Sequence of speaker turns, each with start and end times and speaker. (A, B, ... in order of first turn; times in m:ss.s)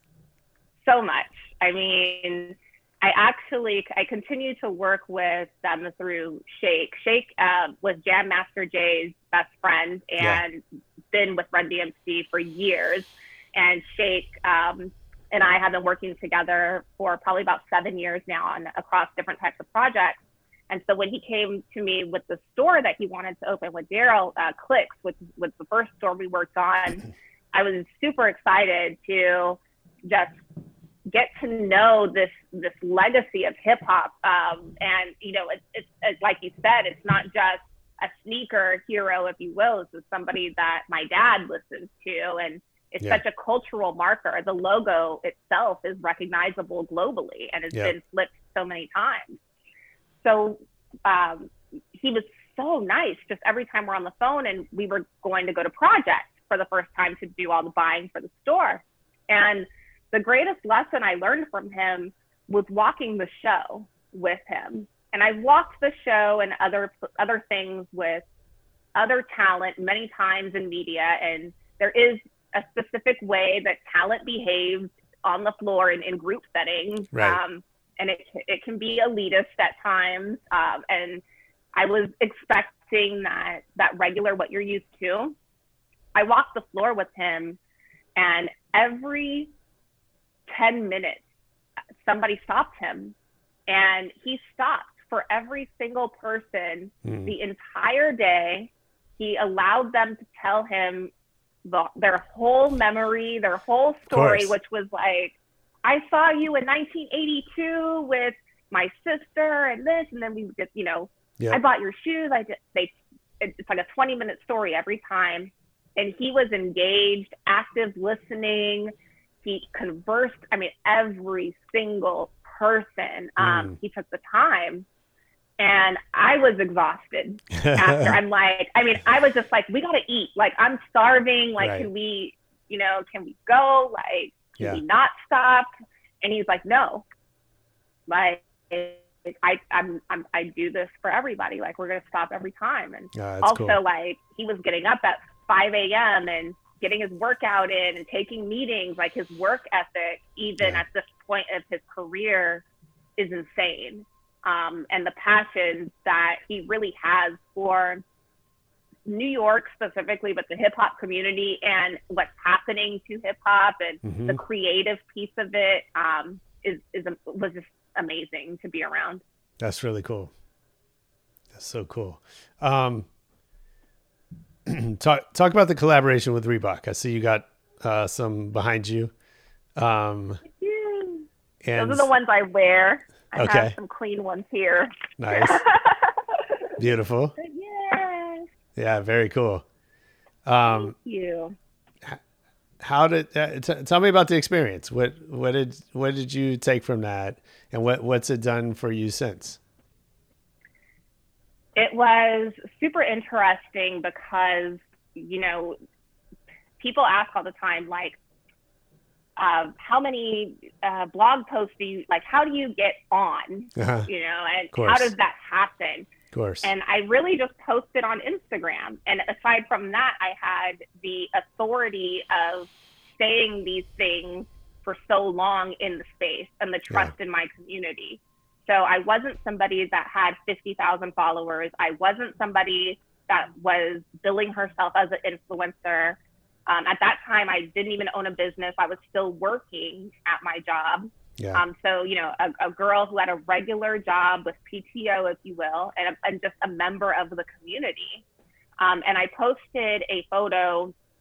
0:00.8-0:30.4 A
0:31.1-0:49.4 A
0:50.2-1:08.2 A
1:09.0-1:21.2 A
1:17.1-1:17.4 B
1:21.7-1:25.4 A
1:26.2-1:27.6 A
1:28.2-1:29.5 A
1:30.5-1:31.2 A
1:32.0-1:33.2 A
1:33.7-1:41.1 A
1:37.0-1:37.4 B
1:41.6-1:58.9 A
1:44.1-1:44.6 B
1:59.4-2:04.9 A
2:03.4-2:03.8 B
2:05.6-2:15.7 A
2:07.5-2:08.2 B
2:11.6-2:11.9 B
2:16.2-2:17.1 A
2:18.1-2:32.6 A
2:23.1-2:23.8 B
2:33.2-2:38.0 A
2:39.1-2:49.2 A
2:44.0-2:44.4 B
2:49.6-2:50.3 B
2:51.5-2:53.1 B
2:54.7-2:59.1 B
2:59.8-3:00.4 B
3:00.4-3:06.4 A
3:01.6-3:02.1 B
3:03.4-3:03.8 B
3:05.2-3:05.6 B
3:06.8-3:07.4 B
3:07.4-3:08.5 A
3:08.8-3:09.6 B
3:10.5-3:10.9 B
3:10.6-3:11.6 A
3:12.8-3:19.6 B
3:21.8-3:25.8 A
3:26.8-3:28.2 A
3:29.4-3:36.1 A
3:33.8-3:34.1 B
3:34.7-3:35.1 B
3:36.3-3:36.7 B
3:36.6-4:08.2 A
4:01.4-4:01.6 B
4:08.8-4:11.0 A